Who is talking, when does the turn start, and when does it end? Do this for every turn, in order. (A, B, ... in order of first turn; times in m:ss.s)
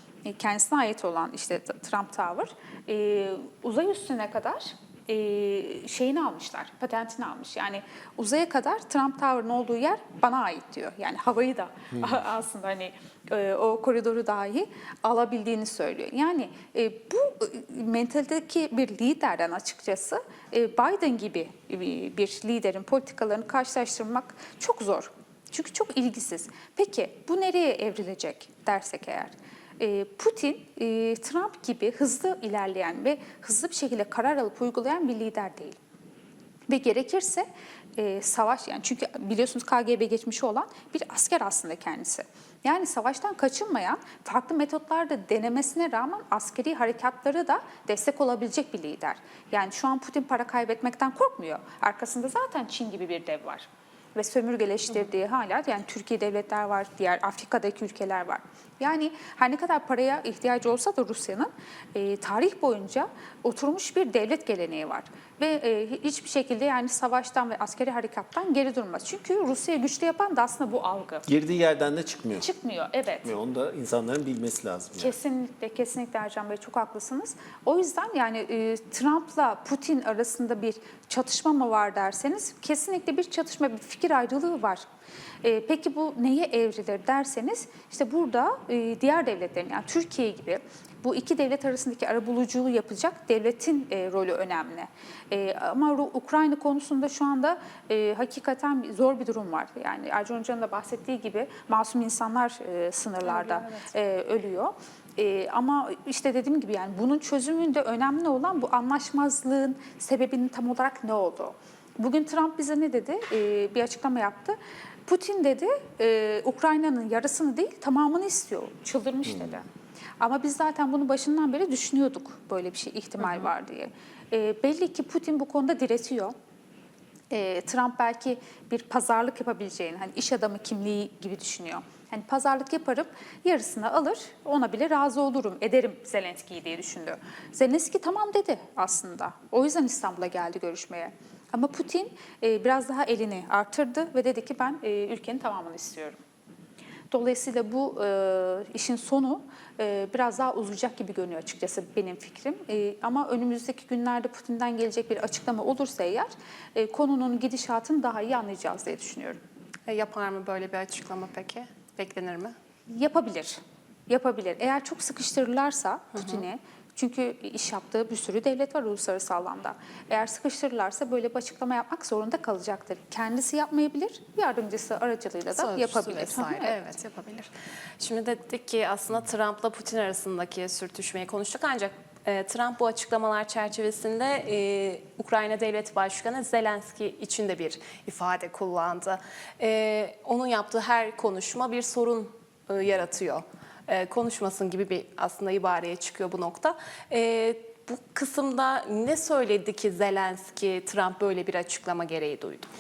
0:00.2-0:35.8 A
0:36.7-1:11.2 A
1:11.2-1:12.4 B
1:12.4-1:13.4 A
1:13.2-1:15.1 B
1:15.0-1:24.8 A
1:25.4-1:59.6 A
1:43.3-1:43.8 C
2:00.2-2:06.3 A
2:07.3-2:26.2 A
2:27.1-2:39.4 A
2:39.9-2:42.5 C
2:42.9-2:56.7 A
2:46.1-2:46.4 C
2:55.5-3:22.7 C